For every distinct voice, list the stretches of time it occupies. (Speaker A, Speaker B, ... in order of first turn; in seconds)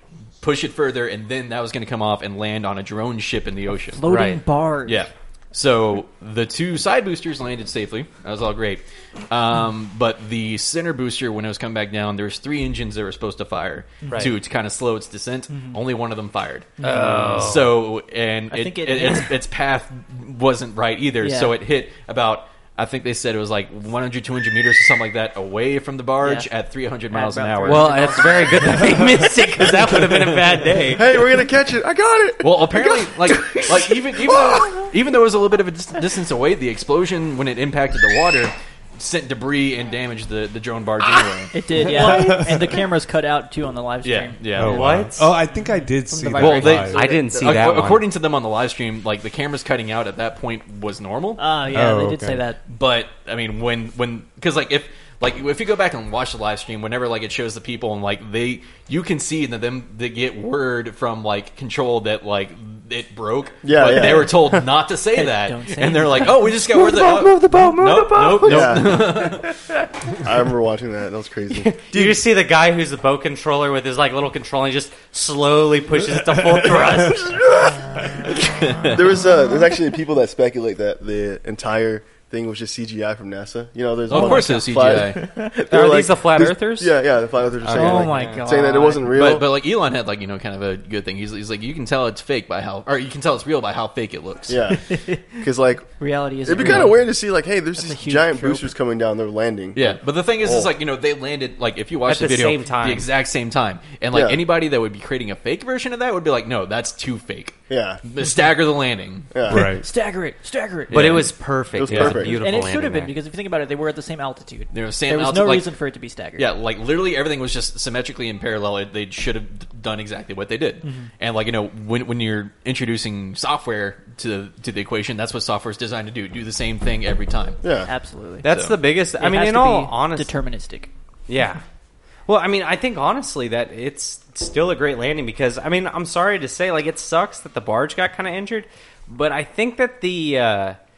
Speaker A: 0.4-4.1, 4.8-28.5, 29.3-30.4, 32.4-42.3, 44.0-45.0, 46.4-51.4, 52.7-69.5, 78.5-78.9, 84.1-85.2, 87.7-88.0, 89.1-94.7, 96.6-96.9, 99.7-109.4, 110.9-111.3, 111.8-112.2, 114.7-115.7, 116.4-127.6, 128.4-128.8
Speaker B: 3.7-5.1, 14.0-14.3, 15.5-15.8, 16.8-17.5, 18.5-19.4, 21.2-21.6, 26.2-26.5, 27.1-29.1, 41.5-44.7, 51.4-52.6, 65.1-66.6, 84.1-85.5, 87.6-89.1, 94.9-95.5, 96.0-97.2, 97.8-98.7, 109.5-111.3, 112.0-116.5, 120.8-121.1, 127.8-128.5, 129.2-130.9
Speaker C: 4.0-4.4, 16.8-17.7, 27.6-31.1, 44.6-45.3, 46.1-48.0, 67.5-68.9, 71.5-78.1, 85.7-86.9, 87.8-88.4, 102.0-103.1, 110.9-113.1, 128.4-130.3, 131.3-131.6, 132.3-140.8
Speaker D: 30.9-34.7, 63.6-64.6, 67.0-69.4, 70.1-72.2, 78.8-89.5, 94.5-94.8, 95.4-95.9, 96.4-100.7, 104.1-104.4, 107.7-108.0, 109.3-109.7, 111.7-112.4, 127.6-127.9
Speaker E: 42.0-42.7, 44.5-47.1, 51.7-52.5, 76.5-77.1, 109.5-109.8